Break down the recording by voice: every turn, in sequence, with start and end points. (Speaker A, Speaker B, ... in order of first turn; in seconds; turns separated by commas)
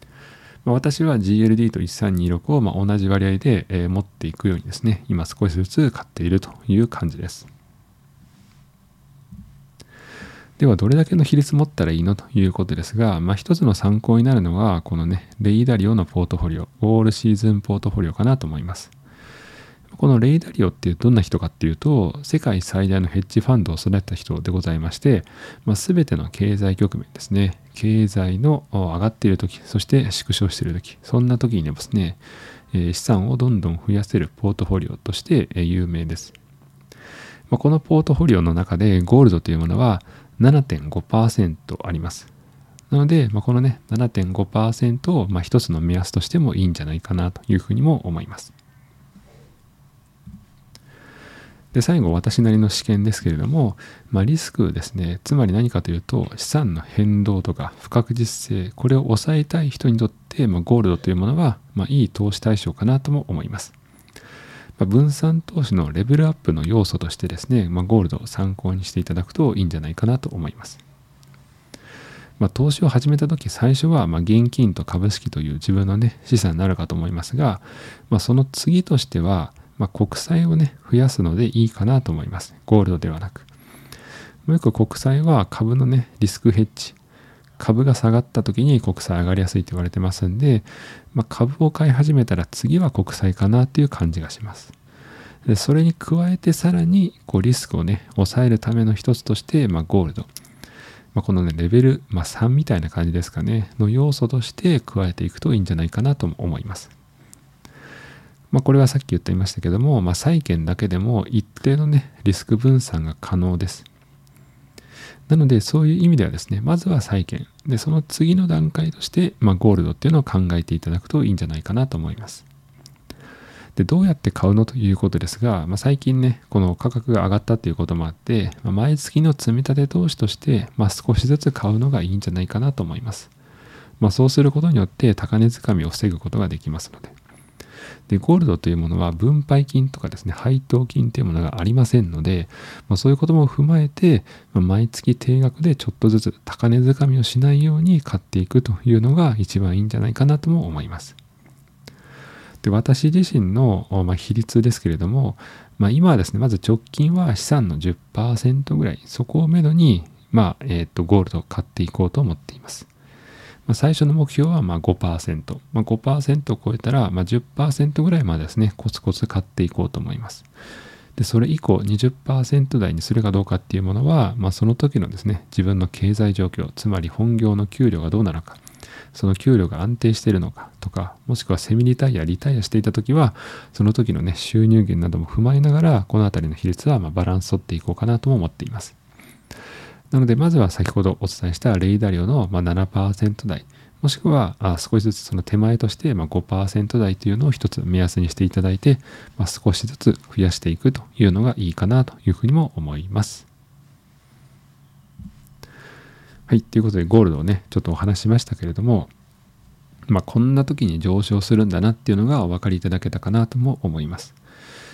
Speaker A: 0.6-7.5, Speaker A: 10.6-18.9, Speaker A: 19.9-36.3, Speaker A: 37.5-42.3, Speaker A: 42.9-48.5, Speaker A: 51.7-63.7, Speaker A: 64.8-70.8, Speaker A: 72.4-83.5, Speaker A: 84.5-87.0, Speaker A: 87.6-94.7, Speaker A: 95.5-100.3, Speaker A: 101.1-106.9, Speaker A: 108.5-113.9, Speaker A: 115.3-122.5, Speaker A: 123.8-133.3, Speaker A: 134.0-137.1, Speaker A: 138.1-151.2, Speaker A: 152.6-162.9, Speaker A: 163.7-170.5, Speaker A: 171.2-178.6, Speaker A: 179.1-189.0, Speaker A: 190.1-203.5, Speaker A: 206.5-209.1, Speaker A: 210.1-214.3